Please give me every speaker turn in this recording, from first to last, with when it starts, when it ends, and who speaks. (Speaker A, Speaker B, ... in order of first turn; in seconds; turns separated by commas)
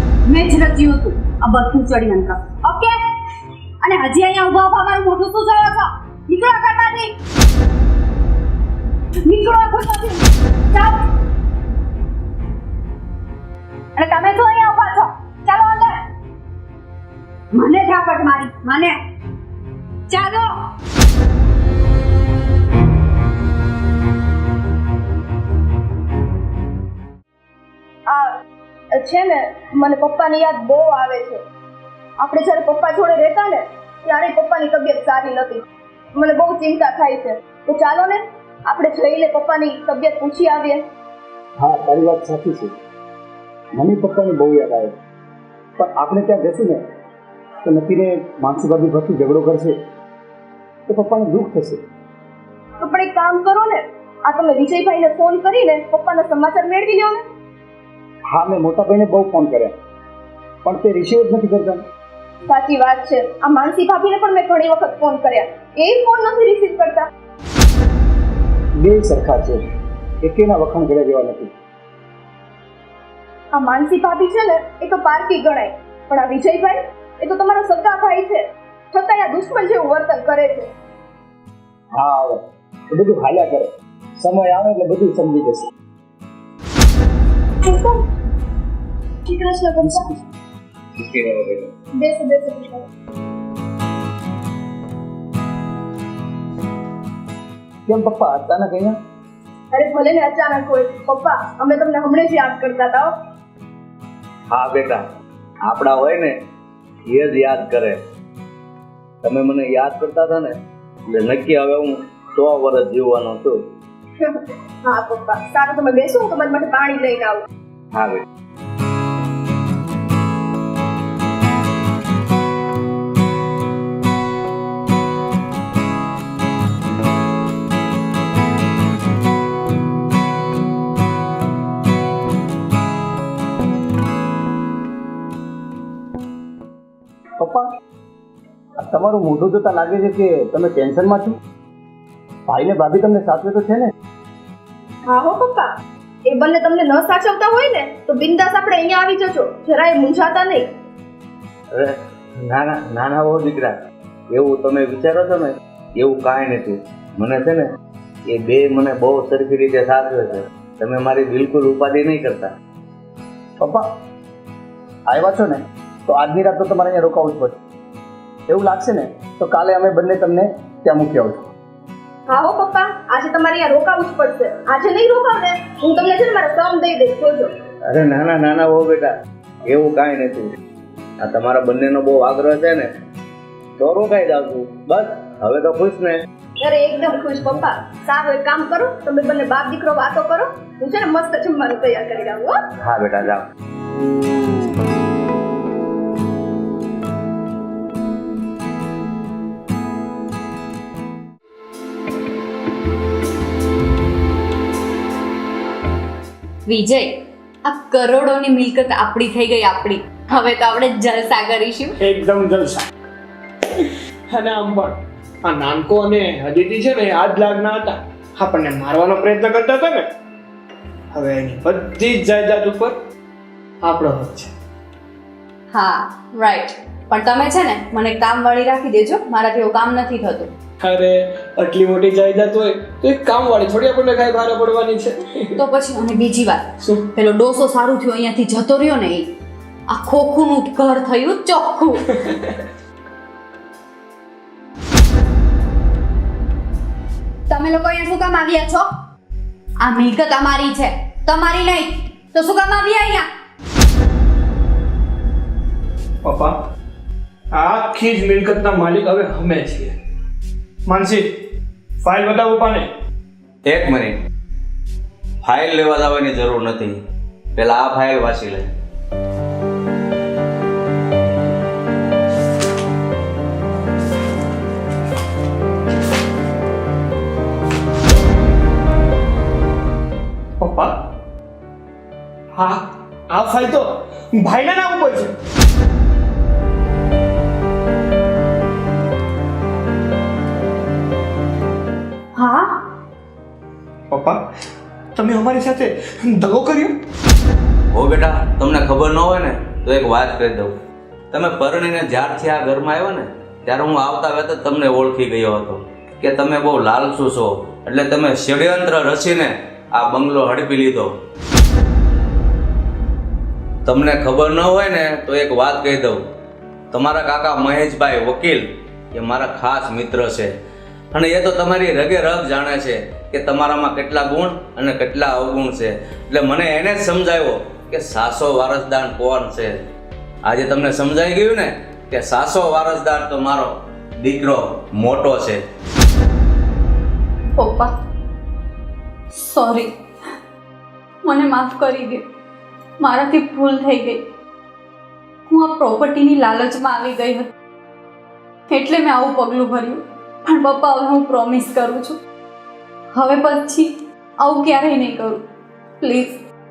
Speaker A: 0.2-3.0, Speaker A: 3.8-7.1, Speaker A: 9.2-11.0, Speaker A: 13.9-16.0, Speaker A: 17.5-19.0, Speaker A: 20.1-20.5, Speaker B: 28.9-31.4, Speaker B: 32.2-35.6, Speaker B: 36.1-40.8, Speaker C: 41.6-42.7, Speaker C: 43.8-44.9, Speaker C: 45.8-46.8, Speaker C: 47.6-49.8, Speaker C: 50.9-51.8, Speaker B: 52.8-57.2, Speaker C: 58.3-59.7, Speaker C: 60.6-61.8, Speaker B: 62.5-67.1, Speaker C: 68.8-69.6, Speaker C: 70.2-71.5, Speaker B: 73.5-80.7, Speaker C: 81.9-85.7, Speaker B: 87.6-88.0, Speaker B: 89.3-90.1, Speaker D: 91.0-91.7, Speaker B: 92.0-92.8, Speaker C: 97.9-99.0, Speaker B: 99.7-103.1, Speaker D: 104.5-105.0, Speaker D: 105.7-106.3, Speaker D: 107.1-108.0, Speaker D: 109.2-110.5, Speaker D: 111.1-113.6, Speaker B: 114.2-117.4, Speaker D: 117.9-118.2, Speaker C: 137.4-137.7, Speaker C: 138.8-141.4, Speaker C: 142.5-143.9, Speaker B: 145.1-145.7, Speaker B: 146.3-150.7, Speaker D: 151.7-153.7, Speaker D: 154.3-157.6, Speaker D: 158.3-162.5, Speaker C: 163.6-163.8, Speaker C: 165.1-167.6, Speaker C: 168.5-171.4, Speaker B: 172.3-177.5, Speaker D: 177.9-179.1, Speaker D: 179.7-180.5, Speaker D: 181.2-182.9, Speaker D: 183.8-186.2, Speaker B: 186.6-192.6, Speaker D: 192.8-193.4, Speaker A: 206.7-211.9, Speaker E: 212.0-212.8, Speaker E: 214.3-220.1, Speaker E: 221.1-223.0, Speaker E: 223.8-224.5, Speaker A: 225.7-230.5, Speaker E: 230.8-235.2, Speaker A: 235.6-239.3, Speaker A: 239.9-242.1, Speaker A: 247.5-248.9, Speaker A: 249.8-253.3, Speaker E: 256.2-256.6, Speaker E: 257.5-259.9, Speaker E: 260.9-261.3, Speaker E: 262.0-262.9, Speaker D: 263.6-264.2, Speaker D: 265.4-267.0, Speaker D: 267.6-268.7, Speaker E: 280.6-281.0, Speaker E: 282.5-285.3, Speaker A: 292.3-292.8, Speaker E: 294.1-294.4, Speaker E: 295.1-297.0, Speaker D: 297.9-300.7, Speaker D: 301.3-311.1, Speaker D: 313.9-316.2, Speaker D: 316.9-320.5, Speaker D: 321.1-329.8, Speaker D: 330.4-335.6, Speaker A: 337.6-337.9, Speaker A: 339.3-339.9, Speaker A: 341.2-342.2, Speaker A: 343.0-344.2, Speaker A: 345.5-347.5, Speaker A: 348.7-352.2, Speaker A: 353.1-355.4, Speaker A: 356.0-356.4